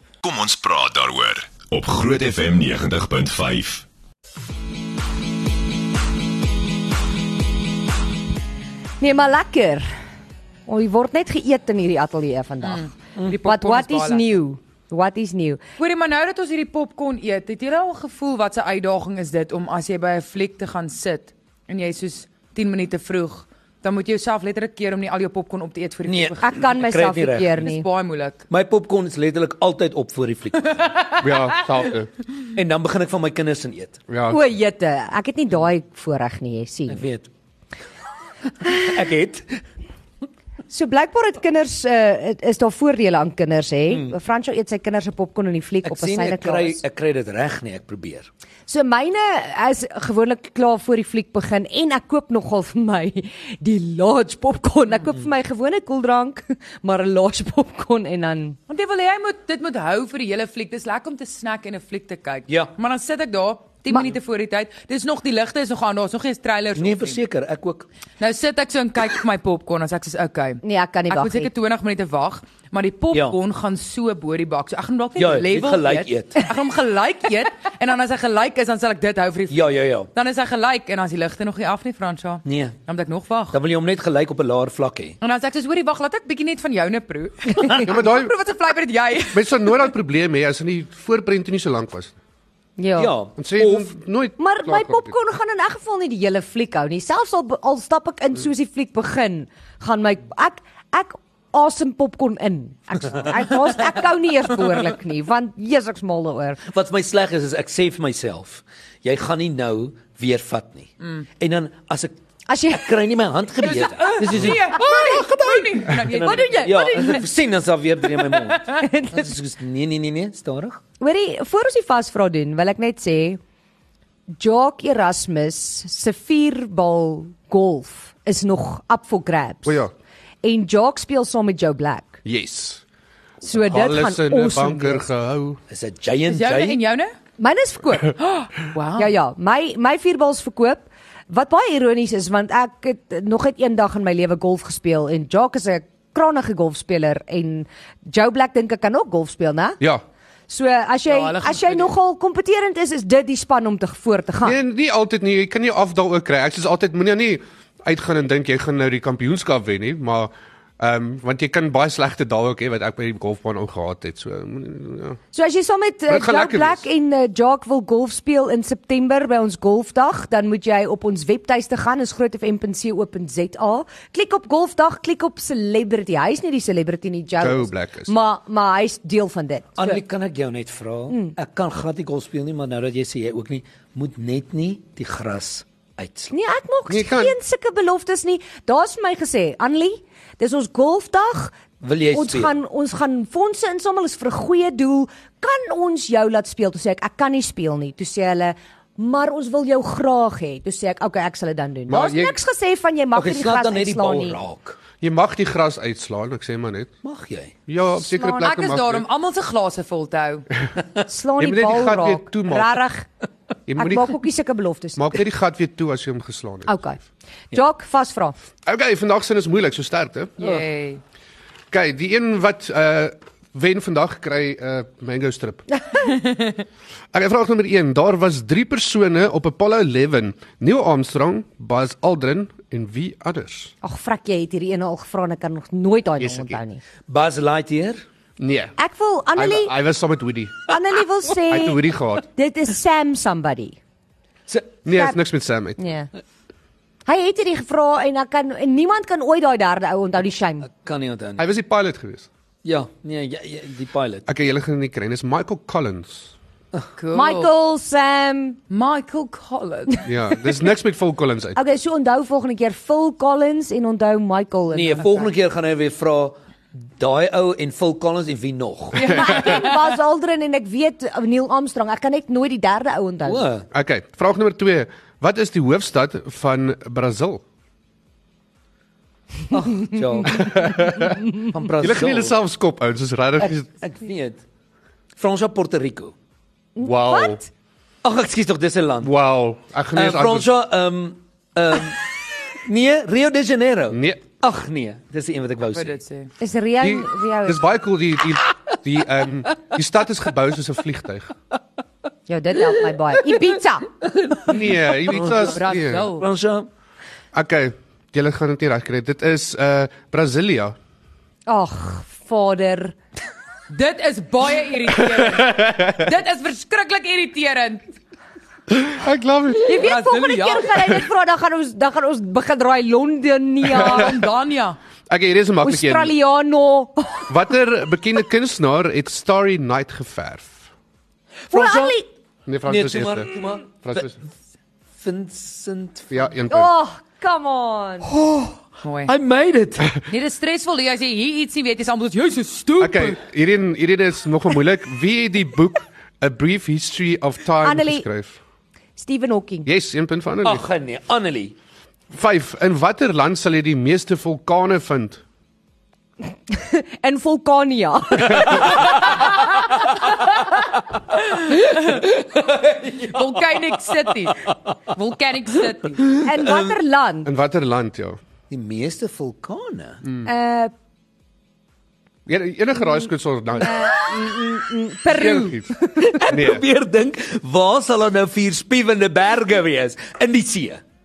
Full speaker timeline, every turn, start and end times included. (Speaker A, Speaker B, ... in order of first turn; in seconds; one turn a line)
Speaker A: 0.2-3.8
Speaker B: 9.0-9.9
Speaker B: 10.7-12.9
Speaker C: 12.6-14.3
Speaker B: 13.4-15.6
Speaker C: 15.8-26.8
Speaker D: 26.1-27.7
Speaker B: 26.4-27.9
Speaker C: 27.6-28.4
Speaker D: 28.5-30.9
Speaker C: 30.8-31.6
Speaker E: 31.2-32.1
Speaker D: 32.5-34.0
Speaker E: 34.1-34.4
Speaker B: 34.3-37.0
Speaker D: 36.9-37.3
Speaker D: 38.6-39.6
Speaker B: 40.7-46.8
Speaker D: 43.9-44.1
Speaker D: 45.8-48.3
Speaker B: 48.7-58.6
Speaker C: 58.7-67.2
Speaker D: 66.8-67.9
Speaker C: 68.2-83.6
Speaker B: 70.6-71.5
Speaker D: 73.1-73.4
Speaker D: 75.2-76.4
Speaker D: 79.5-80.1
Speaker D: 82.4-82.7
Speaker D: 83.5-85.2
Speaker C: 85.2-89.8
Speaker E: 87.8-88.3
Speaker E: 89.3-92.1
Speaker B: 92.8-93.1
Speaker D: 93.0-93.9
Speaker E: 93.4-95.2
Speaker B: 94.4-106.6
Speaker D: 106.7-112.1
Speaker B: 112.5-113.0
Speaker D: 112.7-120.8
Speaker C: 113.6-117.2
Speaker B: 115.0-117.3
Speaker C: 118.1-118.8
Speaker B: 118.8-119.3
Speaker B: 121.0-123.4
Speaker B: 124.3-129.8
Speaker E: 129.6-129.9
Speaker B: 130.4-132.2
Speaker E: 132.2-132.8
Speaker B: 133.4-135.1
Speaker E: 133.5-135.6
Speaker D: 135.7-136.8
Speaker C: 136.2-137.1
Speaker B: 137.4-138.2
Speaker C: 138.2-139.1
Speaker B: 139.0-149.8
Speaker B: 150.5-154.6
Speaker C: 151.1-151.9
Speaker E: 154.4-165.2
Speaker B: 165.3-180.0
Speaker E: 166.1-166.8
Speaker E: 177.4-178.1
Speaker D: 179.8-186.3
Speaker B: 181.1-181.3
Speaker B: 186.3-191.6
Speaker E: 186.9-187.3
Speaker D: 191.8-192.5
Speaker B: 192.1-204.4
Speaker E: 201.9-202.4
Speaker D: 203.1-204.8
Speaker E: 205.0-206.9
Speaker D: 207.0-207.5
Speaker E: 207.7-209.0
Speaker B: 207.9-208.5
Speaker C: 208.4-210.5
Speaker B: 211.1-213.1
Speaker E: 211.4-212.7
Speaker E: 213.7-214.2
Speaker B: 213.8-215.1
Speaker E: 214.9-216.8
Speaker B: 216.7-217.0
Speaker B: 217.5-218.3
Speaker E: 218.7-220.6
Speaker C: 220.4-221.0
Speaker E: 221.7-225.7
Speaker E: 227.1-233.7
Speaker B: 233.8-236.8
Speaker E: 236.2-236.6
Speaker D: 237.1-238.0
Speaker E: 238.4-238.7
Speaker B: 238.8-239.7
Speaker E: 239.3-240.7
Speaker B: 240.7-243.8
Speaker E: 241.5-242.2
Speaker D: 244.5-244.7
Speaker E: 244.8-245.8
Speaker B: 244.9-245.2
Speaker B: 245.8-246.1
Speaker B: 247.1-250.7
Speaker D: 250.7-251.4
Speaker E: 251.4-252.3
Speaker D: 252.6-254.2
Speaker E: 254.2-256.3
Speaker C: 257.0-257.5
Speaker B: 257.1-258.6
Speaker C: 258.7-260.0
Speaker E: 260.1-261.6
Speaker B: 261.6-265.3
Speaker D: 264.7-269.2
Speaker C: 268.9-269.9
Speaker B: 269.0-273.5
Speaker D: 273.2-273.7
Speaker E: 273.7-277.4
Speaker D: 279.5-282.3
Speaker E: 280.2-281.2
Speaker E: 281.8-283.7
Speaker D: 283.4-284.4
Speaker D: 285.1-286.1
Speaker B: 286.8-287.5
Speaker E: 286.8-287.4
Speaker D: 288.0-289.1
Speaker E: 289.0-290.5
Speaker D: 289.9-296.0
Speaker E: 293.9-294.2
Speaker C: 295.7-296.3
Speaker B: 296.4-297.6
Speaker E: 296.8-301.3
Speaker B: 302.3-303.9
Speaker D: 304.0-306.7
Speaker E: 304.5-306.1
Speaker C: 305.3-306.3
Speaker E: 307.3-310.7
Speaker B: 311.5-312.9
Speaker C: 313.7-317.8
Speaker E: 315.1-316.0
Speaker E: 318.7-319.9
Speaker B: 319.6-324.2
Speaker C: 319.7-320.9
Speaker E: 323.7-324.3
Speaker C: 323.7-324.8
Speaker E: 325.1-326.1
Speaker B: 325.6-327.3
Speaker E: 327.3-330.6
Speaker D: 331.5-332.0
Speaker B: 331.5-332.1
Speaker E: 332.4-334.2
Speaker D: 332.6-334.1
Speaker D: 335.0-336.2
Speaker E: 336.1-336.7
Speaker B: 336.5-338.1
Speaker D: 338.1-340.0
Speaker C: 338.8-339.1
Speaker C: 340.1-343.2
Speaker E: 342.8-348.4
Speaker B: 347.6-348.0
Speaker B: 348.9-349.7
Speaker E: 349.6-350.7
Speaker D: 350.4-351.5
Speaker E: 352.1-355.2
Speaker B: 356.5-359.2
Speaker E: 358.3-358.7
Speaker C: 361.3-362.1
Speaker D: 361.5-363.4
Speaker C: 363.0-366.2
Speaker D: 366.0-366.8
Speaker B: 366.2-367.3
Speaker E: 367.2-368.2
Speaker D: 368.5-370.0
Speaker E: 370.0-370.3
Speaker B: 370.2-370.7
Speaker E: 372.2-374.1
Speaker B: 373.6-376.3
Speaker E: 375.1-376.6
Speaker D: 376.0-380.8